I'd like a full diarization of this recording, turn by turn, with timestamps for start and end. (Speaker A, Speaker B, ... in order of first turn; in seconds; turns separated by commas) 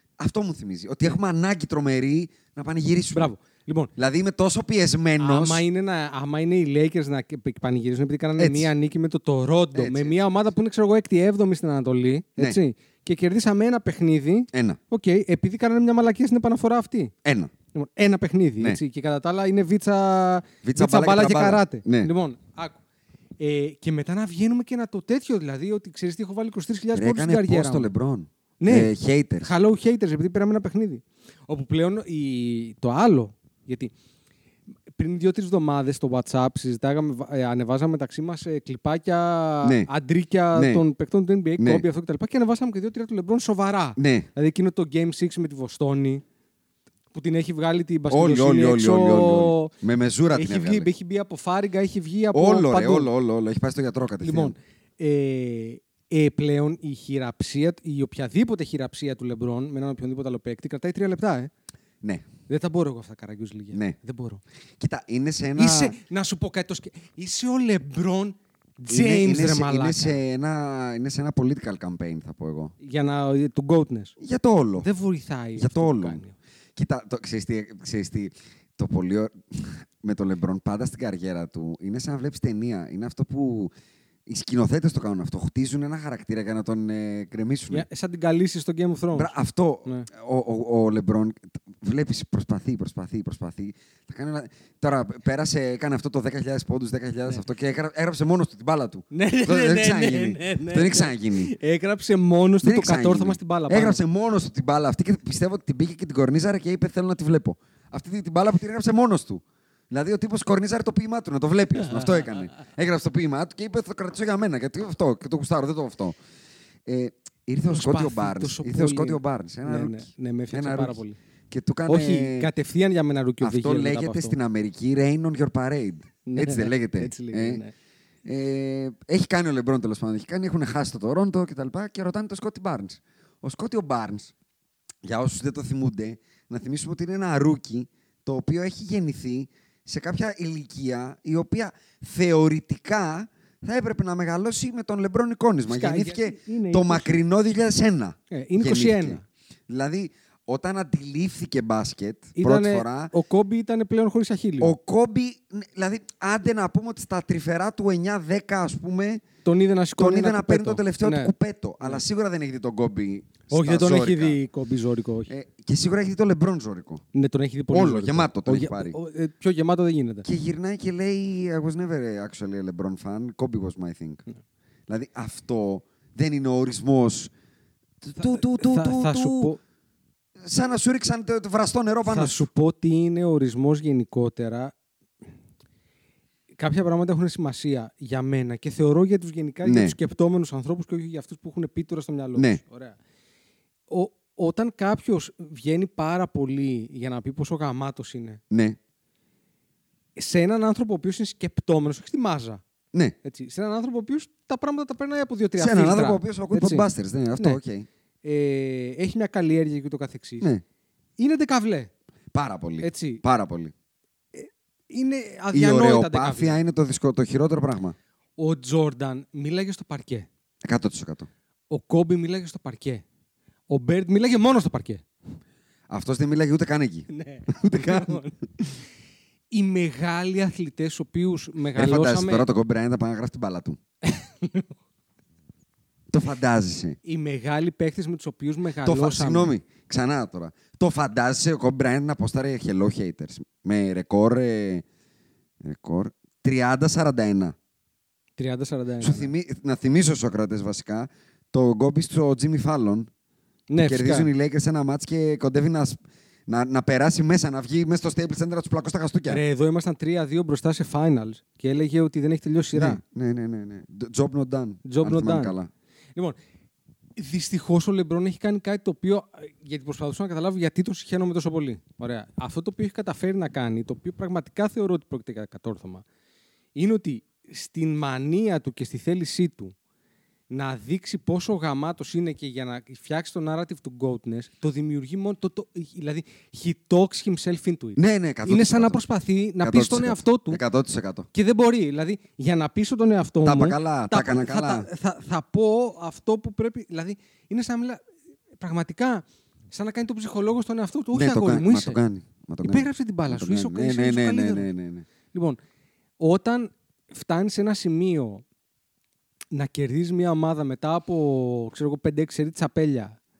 Speaker A: 0.2-3.3, Speaker B: 3.1-3.9, Speaker A: 4.0-5.6, Speaker B: 5.2-17.1, Speaker A: 8.4-8.7, Speaker A: 9.7-10.2, Speaker A: 14.5-14.8, Speaker A: 17.2-17.5, Speaker B: 17.7-22.8, Speaker A: 20.6-22.1, Speaker B: 23.4-27.9, Speaker A: 26.9-29.5, Speaker B: 28.6-28.9, Speaker B: 29.4-33.9, Speaker B: 34.9-46.2, Speaker A: 39.6-39.9, Speaker A: 40.5-40.8, Speaker A: 41.6-41.9, Speaker A: 44.0-44.3, Speaker B: 47.1-49.7, Speaker A: 48.1-50.9, Speaker B: 50.3-53.1, Speaker A: 52.3-54.5, Speaker B: 54.2-61.5, Speaker A: 62.0-62.3, Speaker B: 62.5-64.4, Speaker A: 64.8-66.0, Speaker B: 65.5-70.2, Speaker A: 68.9-72.7, Speaker B: 72.8-74.1, Speaker A: 74.2-74.9, Speaker B: 74.8-76.3, Speaker A: 75.5-76.2, Speaker A: 76.8-83.7, Speaker A: 84.3-87.8, Speaker B: 87.7-89.3, Speaker A: 89.1-101.5, Speaker B: 99.1-104.0, Speaker A: 102.6-116.2, Speaker A: 116.8-122.5, Speaker B: 117.7-121.2, Speaker B: 121.9-124.4, Speaker A: 123.4-127.6, Speaker B: 126.3-127.7, Speaker A: 128.2-134.3, Speaker A: 135.0-153.1, Speaker B: 145.7-147.2, Speaker B: 148.3-149.2, Speaker B: 152.3-154.7, Speaker A: 154.6-159.2, Speaker B: 159.4-162.0, Speaker A: 159.9-164.4, Speaker B: 163.5-165.3, Speaker A: 165.3-167.0, Speaker B: 167.1-170.2, Speaker A: 167.7-169.0, Speaker A: 170.2-174.2, Speaker A: 174.9-177.3, Speaker A: 178.0-179.5, Speaker B: 178.2-179.6, Speaker A: 180.4-182.5, Speaker B: 182.0-184.7, Speaker B: 186.6-193.0, Speaker A: 189.6-189.9, Speaker A: 192.3-192.6, Speaker B: 193.9-198.4, Speaker A: 198.5-198.8, Speaker B: 200.2-202.6, Speaker B: 203.2-207.6, Speaker A: 205.6-207.9, Speaker B: 208.2-210.5, Speaker B: 211.2-211.9, Speaker A: 212.3-213.7, Speaker B: 212.8-213.2, Speaker B: 214.3-216.6, Speaker A: 215.5-217.9, Speaker B: 218.4-220.3, Speaker A: 220.6-221.3, Speaker B: 221.7-223.0, Speaker B: 223.7-225.0, Speaker A: 225.9-228.2, Speaker B: 227.1-228.3, Speaker B: 229.5-232.5, Speaker A: 231.7-233.8, Speaker B: 234.1-234.7, Speaker A: 236.1-237.0, Speaker B: 237.0-239.5, Speaker A: 238.8-244.8, Speaker A: 245.6-247.6, Speaker B: 248.4-249.3, Speaker A: 249.0-253.1, Speaker B: 253.7-254.3, Speaker A: 253.8-259.4, Speaker B: 259.3-263.0, Speaker A: 262.7-265.7, Speaker B: 264.8-265.5, Speaker B: 267.2-276.0, Speaker B: 276.8-279.7, Speaker B: 280.5-290.6, Speaker A: 288.0-289.0, Speaker A: 289.6-291.3, Speaker B: 291.3-298.0, Speaker A: 293.4-294.9, Speaker B: 298.6-302.0, Speaker A: 301.1-305.1, Speaker B: 302.6-304.7, Speaker B: 305.3-305.6, Speaker B: 306.2-308.4, Speaker B: 309.5-313.2